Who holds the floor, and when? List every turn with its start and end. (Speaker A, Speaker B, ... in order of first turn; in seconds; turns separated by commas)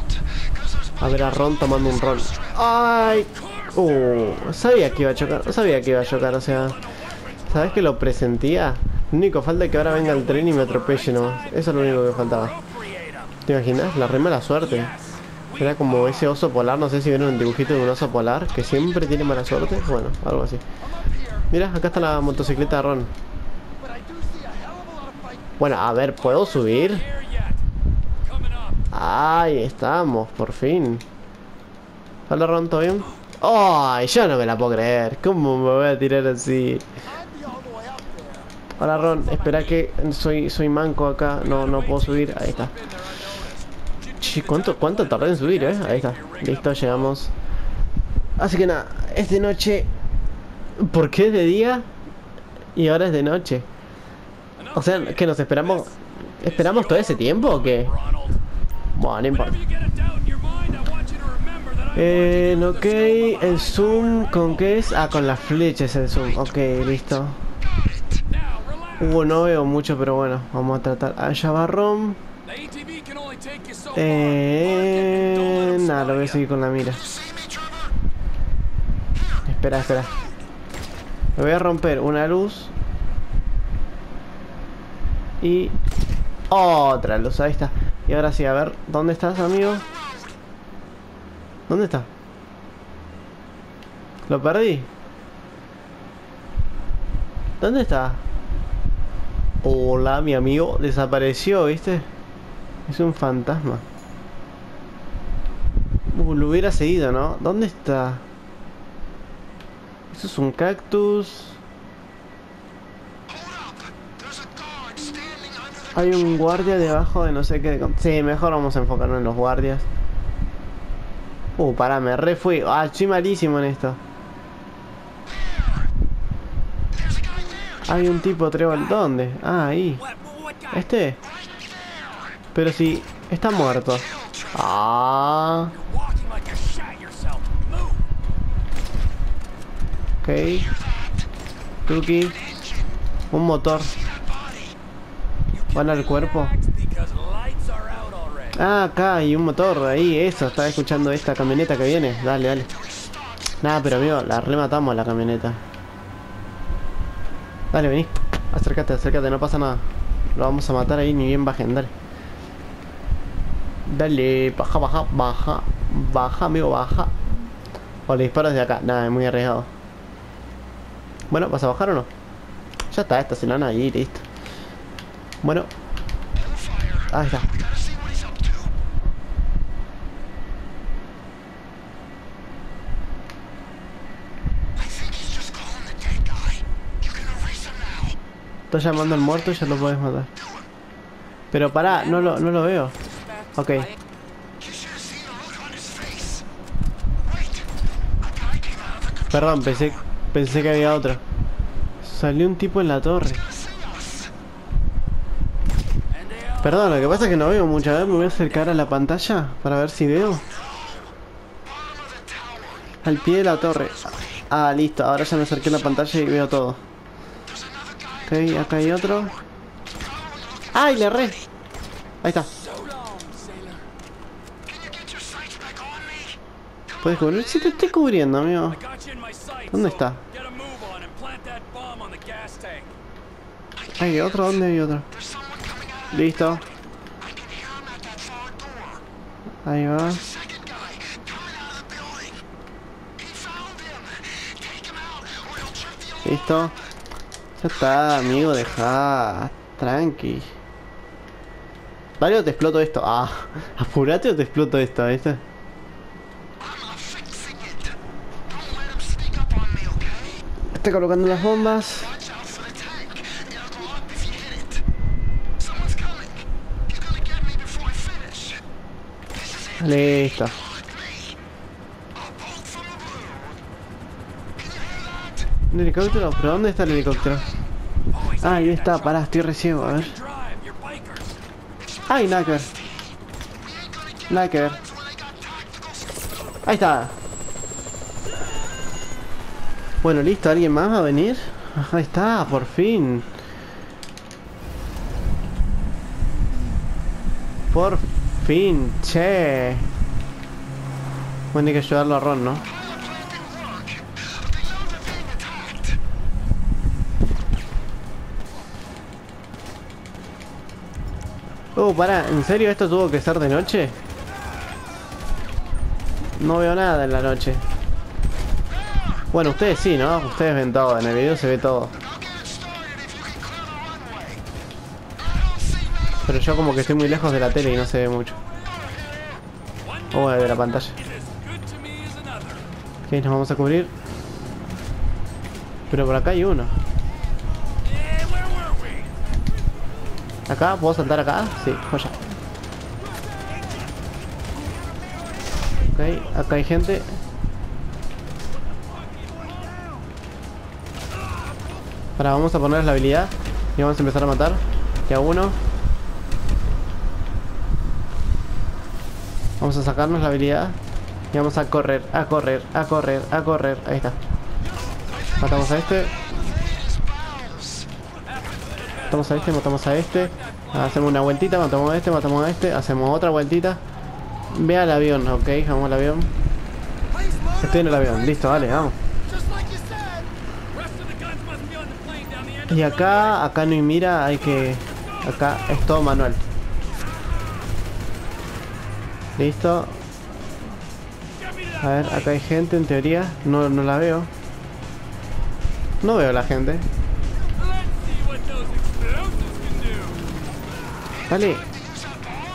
Speaker A: 1.0-6.8, Speaker B: 3.0-7.8, Speaker A: 7.5-12.5, Speaker B: 9.8-13.4, Speaker A: 13.4-14.9, Speaker B: 14.6-16.3, Speaker A: 15.6-20.6, Speaker B: 18.7-19.6, Speaker B: 20.8-22.9, Speaker A: 21.5-23.1, Speaker B: 23.8-25.5, Speaker A: 25.6-27.0, Speaker B: 26.1-27.6, Speaker B: 28.2-28.8, Speaker A: 28.9-31.0, Speaker A: 32.3-36.9, Speaker B: 37.2-39.8, Speaker A: 38.8-42.7, Speaker B: 41.4-47.1, Speaker A: 44.2-47.3, Speaker A: 48.4-49.9, Speaker A: 50.8-51.9, Speaker A: 52.8-53.7, Speaker B: 54.5-58.4, Speaker A: 54.7-57.9, Speaker A: 59.0-59.6, Speaker B: 59.3-65.3, Speaker A: 61.9-67.4, Speaker B: 66.3-66.5, Speaker B: 67.9-69.4, Speaker A: 69.0-72.2, Speaker B: 72.4-76.4, Speaker A: 73.9-77.1, Speaker A: 79.5-80.1, Speaker A: 81.3-82.7, Speaker A: 85.4-85.8, Speaker A: 86.5-89.8, Speaker A: 91.7-92.1, Speaker A: 94.3-94.9, Speaker A: 97.6-98.2, Speaker A: 99.6-102.1, Speaker A: 102.9-103.8, Speaker A: 106.1-108.2, Speaker A: 110.1-111.6, Speaker A: 115.9-119.8, Speaker A: 121.6-124.0, Speaker A: 127.8-130.0, Speaker B: 130.0-130.8, Speaker A: 130.7-131.2, Speaker A: 132.5-135.7, Speaker B: 135.7-138.0, Speaker A: 140.2-140.7, Speaker A: 141.9-142.4, Speaker A: 143.3-143.9, Speaker B: 145.5-148.6, Speaker A: 145.7-146.5, Speaker A: 148.5-152.7, Speaker A: 153.6-155.6, Speaker A: 157.7-159.8, Speaker A: 160.3-161.9, Speaker A: 163.8-167.1, Speaker A: 168.1-169.7, Speaker A: 171.3-172.1, Speaker A: 172.9-174.2, Speaker A: 175.4-175.7, Speaker A: 177.1-177.5, Speaker A: 188.7-190.3, Speaker A: 191.5-192.9, Speaker B: 191.8-193.9, Speaker A: 193.5-193.9, Speaker B: 198.7-199.3, Speaker A: 199.3-201.2, Speaker A: 202.0-203.4, Speaker B: 206.1-208.7, Speaker A: 206.6-210.5, Speaker A: 213.0-216.8, Speaker A: 218.3-219.3, Speaker A: 220.7-221.4, Speaker A: 222.2-222.5, Speaker B: 222.5-223.8, Speaker A: 227.0-228.8, Speaker B: 228.7-232.9, Speaker A: 229.7-230.2, Speaker A: 234.0-235.1, Speaker A: 236.1-236.6, Speaker A: 239.6-240.2, Speaker A: 246.2-246.7, Speaker A: 247.6-250.5, Speaker A: 252.2-255.4, Speaker A: 260.7-262.1, Speaker A: 269.8-270.6, Speaker A: 275.7-277.5, Speaker B: 278.1-281.4, Speaker A: 278.4-280.1, Speaker A: 282.1-282.7, Speaker A: 284.3-284.8, Speaker A: 286.6-287.1, Speaker A: 290.0-293.3, Speaker A: 297.7-299.9, Speaker A: 301.5-302.6, Speaker A: 311.8-313.9, Speaker A: 316.4-317.6, Speaker A: 319.3-321.9, Speaker A: 326.2-328.4, Speaker B: 329.8-332.7, Speaker A: 330.1-330.9, Speaker A: 333.1-333.9, Speaker A: 335.9-336.7, Speaker B: 337.8-339.1, Speaker A: 340.5-342.2, Speaker B: 343.3-343.9, Speaker A: 345.9-347.1, Speaker B: 348.7-350.0, Speaker A: 352.2-355.6, Speaker A: 359.6-360.8, Speaker A: 361.3-364.2, Speaker B: 364.6-365.4, Speaker A: 365.4-366.1, Speaker B: 368.1-371.1, Speaker A: 369.1-373.8, Speaker A: 374.5-376.3, Speaker B: 377.1-383.4, Speaker A: 377.6-378.9, Speaker A: 382.7-386.4, Speaker B: 384.9-385.9, Speaker B: 387.1-387.7, Speaker A: 389.4-390.0, Speaker B: 391.3-392.3, Speaker A: 391.8-394.3, Speaker A: 396.0-396.9, Speaker B: 397.3-400.5, Speaker A: 401.3-401.7